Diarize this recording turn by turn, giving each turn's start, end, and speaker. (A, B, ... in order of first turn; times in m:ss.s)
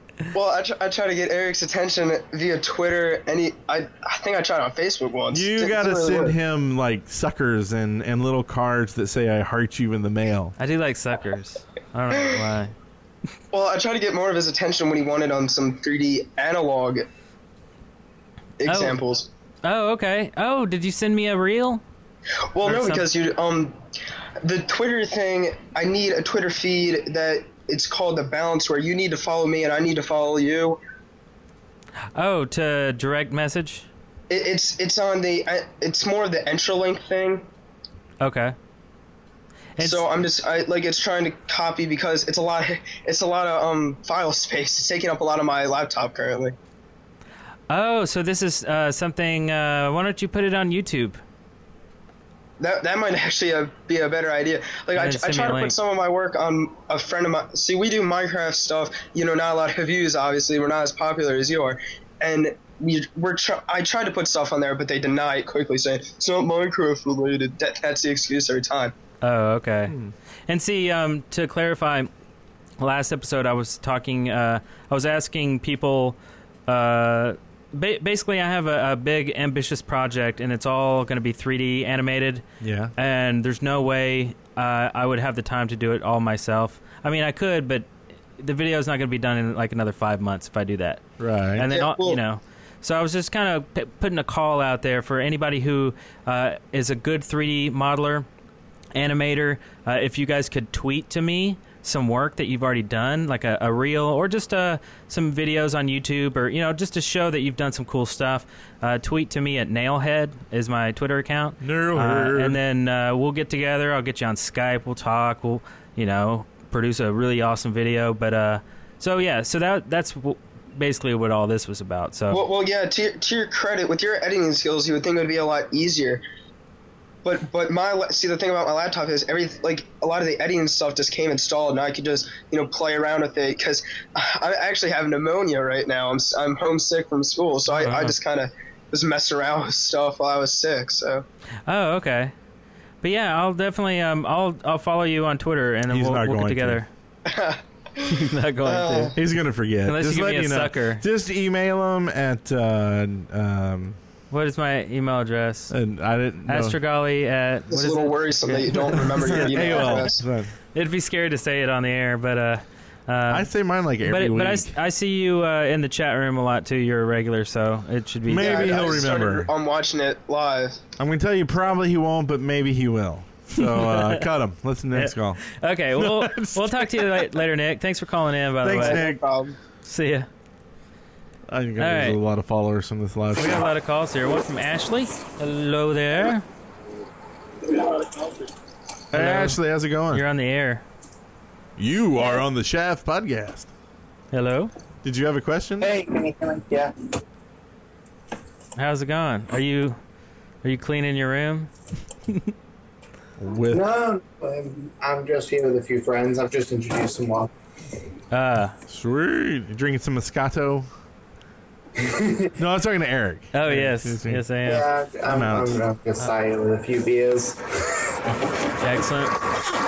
0:00.3-0:06.4 A
0:05.3-0:10.5 B
0:10.6-0:12.7 C
0:13.5-0:17.0 A
0:18.6-0:19.3 A
0:18.6-0:19.0 C
0:19.6-0:21.8 C
0:22.5-0:23.8 A
0:22.6-0:23.1 C
0:24.4-0:30.8 A
0:32.1-0:33.9 C
0:34.3-0:37.4 A
0:38.2-0:38.5 C
0:39.8-0:40.1 C
0:39.8-0:46.6 A
0:47.7-0:51.2 C
0:52.6-1:08.9 A
0:54.9-0:55.7 C
1:09.2-1:09.9 C
1:09.9-1:10.1 B
1:10.5-1:12.1 C
1:12.8-1:22.4 C
1:22.6-1:22.9 B
1:23.0-1:31.0 C
1:31.2-1:31.7 B
1:31.6-1:38.2 C
1:31.7-1:32.2 A
1:38.9-2:02.4 C
1:51.6-1:52.6 B
2:02.3-2:06.2 A
2:07.2-2:21.2 A
2:17.7-2:18.2 C
2:21.7-2:22.3 C
2:23.0-2:26.9 C
2:25.9-2:26.8 B
2:27.2-2:29.1 A
2:28.0-2:29.1 C
2:29.1-2:34.0 B
2:29.8-2:31.0 C
2:34.3-2:35.7 C
2:35.7-2:36.8 B
2:36.5-2:40.0 C
2:37.7-2:40.2 A
2:39.0-2:40.5 B
2:40.7-2:43.5 C
2:43.3-2:44.7 B
2:44.0-2:49.0 C
2:48.2-2:49.5 B
2:48.4-2:50.8 A
2:51.0-2:55.4 B
2:53.6-2:54.2 C
2:54.9-2:59.0 C
2:56.0-2:57.4 B
2:58.6-2:59.2 B
2:58.7-2:59.6 A
2:59.8-3:00.3 C
3:01.5-3:03.7 B
3:01.8-3:02.2 C
3:03.4-3:06.4 C
3:09.1-3:10.2 B
3:09.1-3:09.6 C
3:10.1-3:10.8 C
3:11.8-3:13.7 B
3:14.3-3:14.7 C
3:15.0-3:15.9 B
3:15.8-3:16.9 D
3:18.8-3:20.0 C
3:20.6-3:21.7 C
3:23.4-3:23.8 B
3:23.7-3:27.5 D
3:28.3-3:28.8 C
3:28.9-3:30.9 B
3:32.0-3:32.6 D
3:32.6-3:34.4 B
3:33.5-3:34.9 C
3:34.6-3:37.6 D
3:35.3-3:35.8 B
3:38.8-3:39.4 C